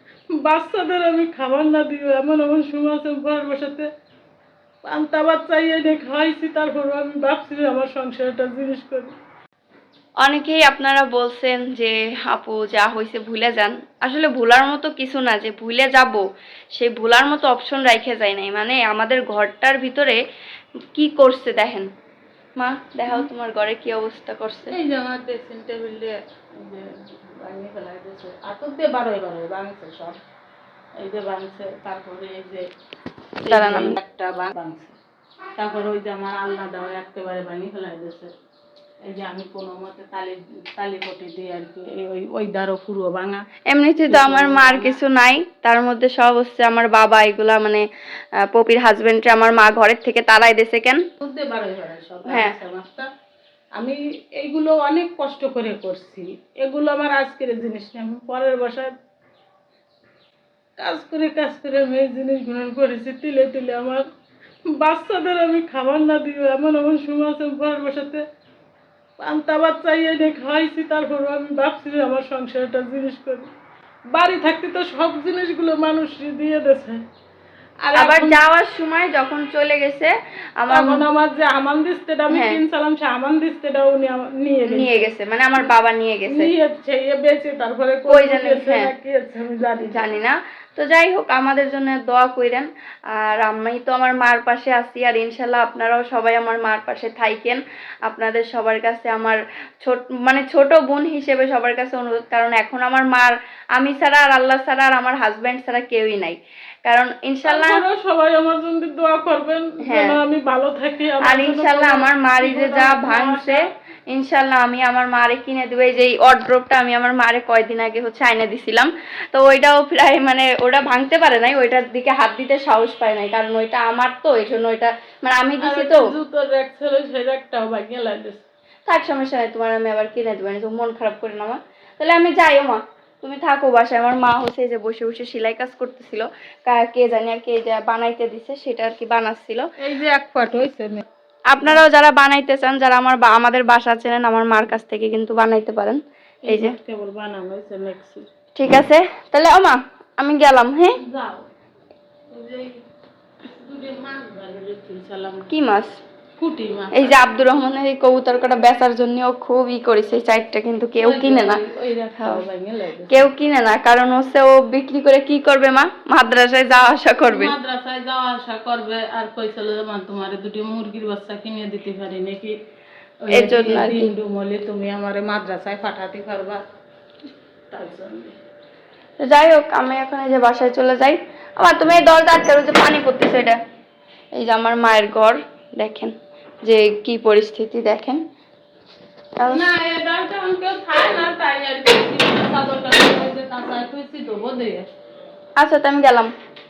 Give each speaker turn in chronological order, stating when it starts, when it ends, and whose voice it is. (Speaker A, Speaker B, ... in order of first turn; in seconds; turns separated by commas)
Speaker A: 0.4-3.9, Speaker A: 4.8-9.2, Speaker B: 10.2-20.2, Speaker B: 20.9-21.9, Speaker B: 22.6-24.8, Speaker A: 24.7-30.2, Speaker A: 31.0-32.7, Speaker A: 33.4-35.0, Speaker B: 33.4-34.0, Speaker A: 35.6-38.3, Speaker A: 39.0-43.4, Speaker B: 43.7-47.9, Speaker A: 44.1-45.0, Speaker B: 48.4-51.0, Speaker A: 51.2-53.1, Speaker B: 52.3-52.6, Speaker A: 53.8-58.9, Speaker A: 60.8-64.0, Speaker A: 64.7-68.2, Speaker A: 69.2-73.5, Speaker A: 74.1-77.0, Speaker A: 77.8-78.4, Speaker B: 78.0-81.0, Speaker A: 80.7-85.1, Speaker B: 82.3-82.6, Speaker B: 84.7-86.5, Speaker A: 86.3-90.0, Speaker B: 88.1-88.9, Speaker B: 89.9-107.8, Speaker A: 107.5-113.7, Speaker B: 109.8-110.2, Speaker B: 111.2-126.1, Speaker A: 125.6-128.4, Speaker B: 128.9-139.7, Speaker A: 139.8-141.1, Speaker B: 141.5-146.8, Speaker A: 146.4-148.3, Speaker B: 148.6-151.0, Speaker A: 151.0-151.5, Speaker A: 152.3-152.8, Speaker A: 153.5-155.5, Speaker B: 155.5-156.0, Speaker A: 156.4-157.2, Speaker B: 156.9-161.6, Speaker A: 161.0-163.2, Speaker B: 163.1-167.6, Speaker A: 167.2-172.6, Speaker A: 173.2-176.6, Speaker B: 173.3-174.1, Speaker A: 177.7-178.4, Speaker B: 179.2-183.6, Speaker B: 184.3-188.2, Speaker B: 189.4-189.7, Speaker A: 189.5-194.9, Speaker B: 195.6-196.3